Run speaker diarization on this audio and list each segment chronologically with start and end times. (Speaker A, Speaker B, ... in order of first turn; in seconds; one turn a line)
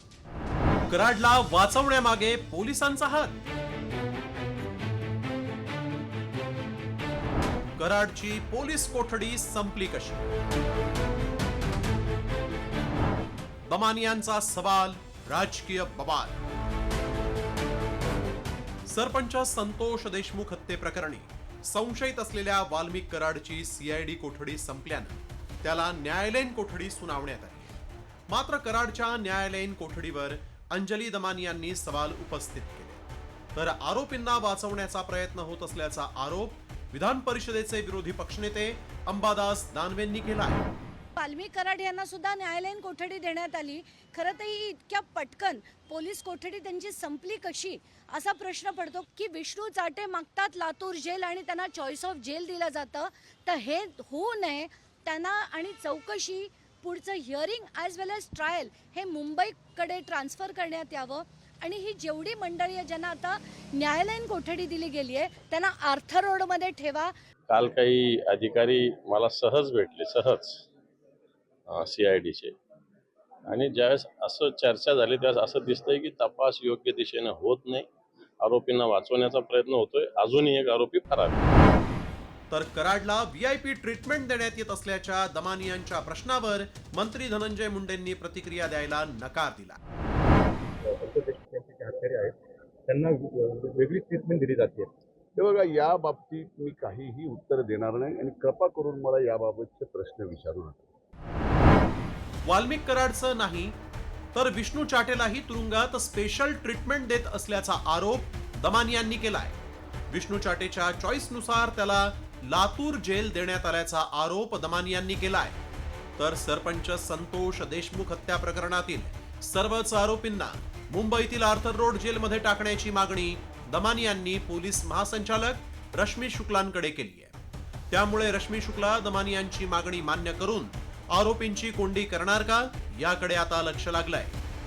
Speaker A: 0.9-3.4
Speaker A: 7.8-10.2
Speaker A: 13.7-16.4
Speaker A: 18.9-40.7
Speaker B: 41.2-67.1
Speaker C: 67.5-70.6
Speaker C: 71.7-72.5
Speaker C: 73.5-77.9
Speaker C: 78.4-81.4
Speaker A: 82.5-89.8
Speaker D: 90.9-92.3
Speaker D: 92.9-94.8
Speaker E: 95.3-100.9
Speaker A: 102.4-103.8
Speaker A: 104.3-109.6
Speaker A: 110.1-115.6
Speaker A: 116.2-127.3
Speaker A: 127.9-134.4